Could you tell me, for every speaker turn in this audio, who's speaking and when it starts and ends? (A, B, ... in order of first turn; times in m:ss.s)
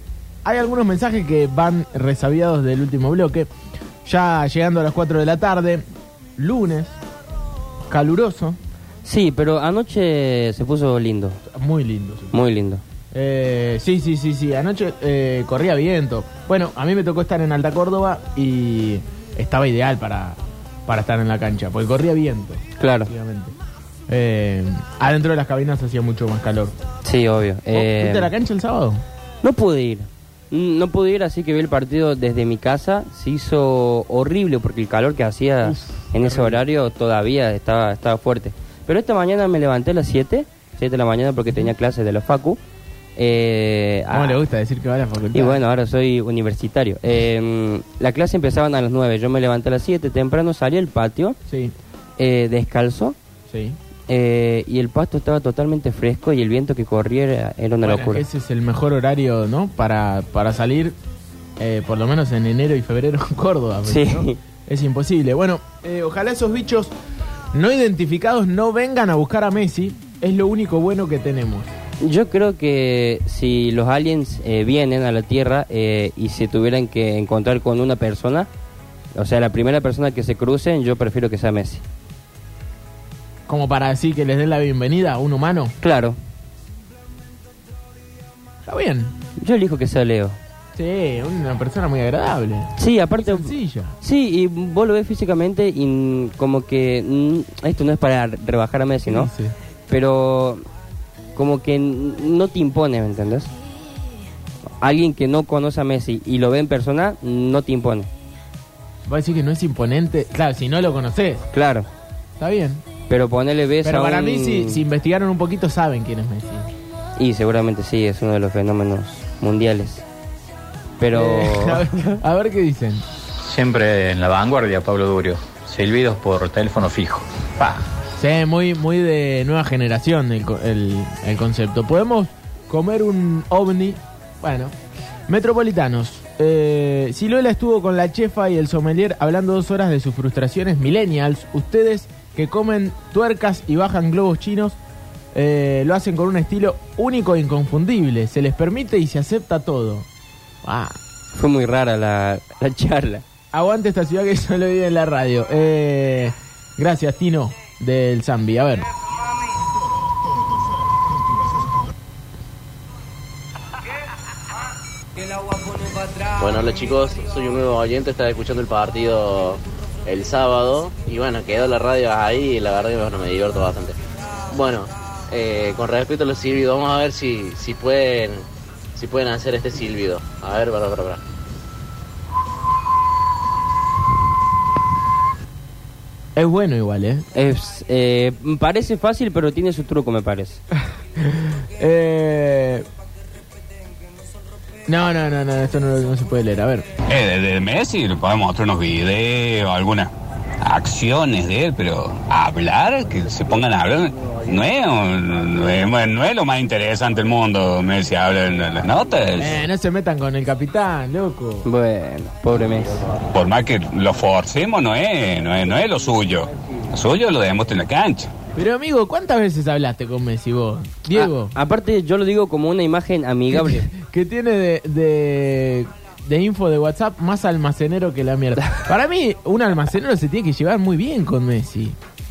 0:00.4-0:03.5 A
0:04.0-0:05.8 A
0:06.4-0:07.0 A
0:07.9-0:08.6 A
0:09.0-0:11.4 B
0:11.5-0:12.3 A
0:12.3-0:12.8 B
0:13.1-0:23.6 A
0:22.8-0:23.1 B
0:24.1-0:26.8 A
0:27.0-0:28.3 B
0:27.7-0:29.0 A
0:29.4-0:42.6 B
0:35.6-0:36.6 A
0:43.2-0:44.4 B
0:44.1-0:45.6 A
0:45.3-0:51.4 B
0:51.5-0:51.7 A
0:52.2-0:53.2 B
0:53.5-0:53.8 A
0:54.1-0:58.2 B
0:57.8-1:01.0 A
1:01.6-1:06.9 A
1:03.9-1:04.4 B
1:07.5-1:11.7 A
1:12.0-1:18.5 B
1:19.2-1:21.8 B
1:23.5-1:25.7 A
1:25.8-1:26.2 B
1:28.7-1:29.2 A
1:29.4-1:30.4 B
1:30.8-1:34.0 A
1:32.8-1:39.3 B
1:39.1-1:39.6 A
1:39.9-1:40.6 B
1:41.4-1:43.5 B
1:44.8-1:48.1 B
1:49.1-1:51.4 A
1:51.5-1:51.9 B
1:52.4-1:52.8 A
1:53.1-1:54.8 B
1:53.8-1:56.7 A
1:57.2-2:00.0 B
2:01.0-2:01.8 B
2:01.1-2:03.0 A
2:03.4-2:07.8 C
2:08.2-2:14.7 A
2:15.3-2:24.8 A
2:25.3-2:30.1 A
2:30.6-2:31.0 A
2:31.3-2:33.2 B
2:33.5-2:38.9 A
2:46.4-2:54.0 D
2:54.5-3:01.2 D
3:06.4-3:07.3 A
3:07.4-3:10.6 B
3:11.2-3:12.9 A
3:14.9-3:16.9 A
3:17.1-3:20.1 E
3:20.6-3:29.6 E
3:29.4-3:31.6 A
3:31.6-3:33.0 B
3:33.3-3:38.3 E
3:38.6-3:41.6 A
3:41.1-3:43.9 B
3:43.5-3:52.0 A